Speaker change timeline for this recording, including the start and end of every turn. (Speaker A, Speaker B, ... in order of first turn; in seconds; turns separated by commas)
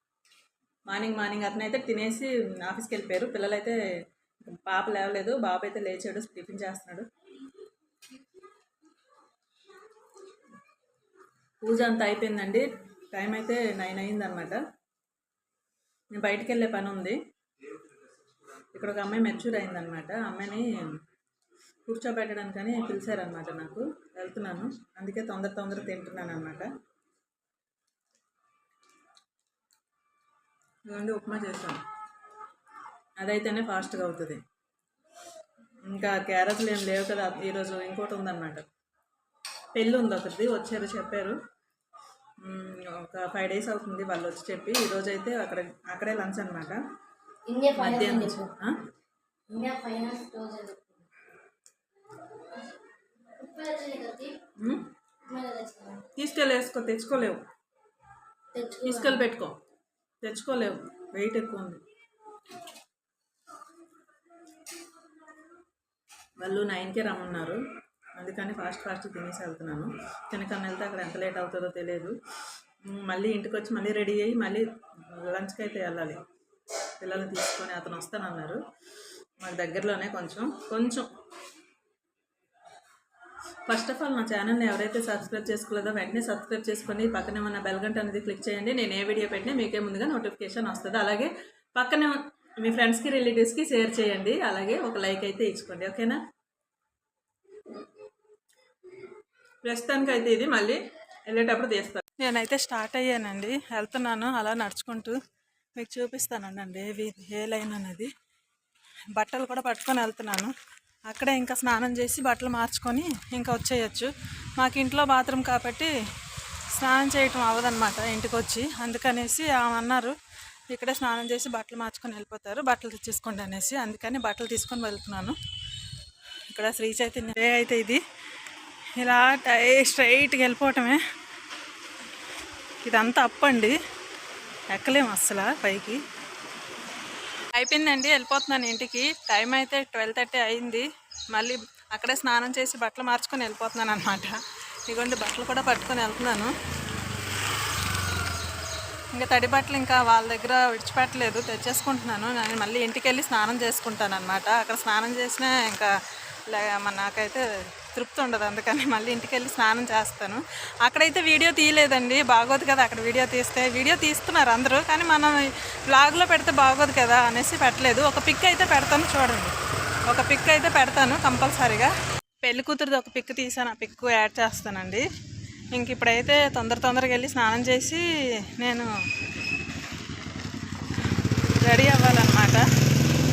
Speaker A: 0.9-3.8, Speaker A: 4.4-7.1, Speaker A: 11.6-14.6, Speaker A: 16.1-17.2, Speaker A: 18.7-21.0, Speaker A: 21.9-26.7, Speaker A: 30.9-31.8, Speaker A: 33.2-34.4, Speaker A: 35.9-38.6, Speaker A: 39.8-41.4, Speaker A: 42.4-46.8, Speaker B: 47.5-48.5, Speaker A: 47.8-48.8, Speaker B: 49.5-51.1, Speaker B: 53.4-54.4, Speaker A: 54.6-54.9, Speaker B: 55.3-56.0, Speaker A: 56.2-57.4, Speaker B: 58.5-59.2, Speaker A: 58.9-59.6, Speaker A: 60.2-61.8, Speaker A: 66.4-67.6, Speaker A: 68.2-72.1, Speaker A: 72.9-74.6, Speaker A: 75.2-76.2, Speaker A: 77.0-78.6, Speaker A: 79.4-81.1, Speaker A: 83.7-96.2, Speaker A: 99.6-105.2, Speaker A: 105.8-108.1, Speaker A: 109.2-110.5, Speaker A: 111.1-115.9, Speaker A: 116.7-120.2, Speaker A: 120.7-125.4, Speaker A: 126.5-128.0, Speaker A: 129.0-131.0, Speaker A: 132.8-133.8, Speaker A: 134.7-136.0, Speaker A: 137.6-146.5, Speaker A: 149.1-155.9, Speaker A: 156.5-169.5, Speaker A: 170.1-171.9, Speaker A: 172.4-175.1, Speaker A: 175.7-178.0, Speaker A: 178.6-178.9, Speaker A: 181.6-182.7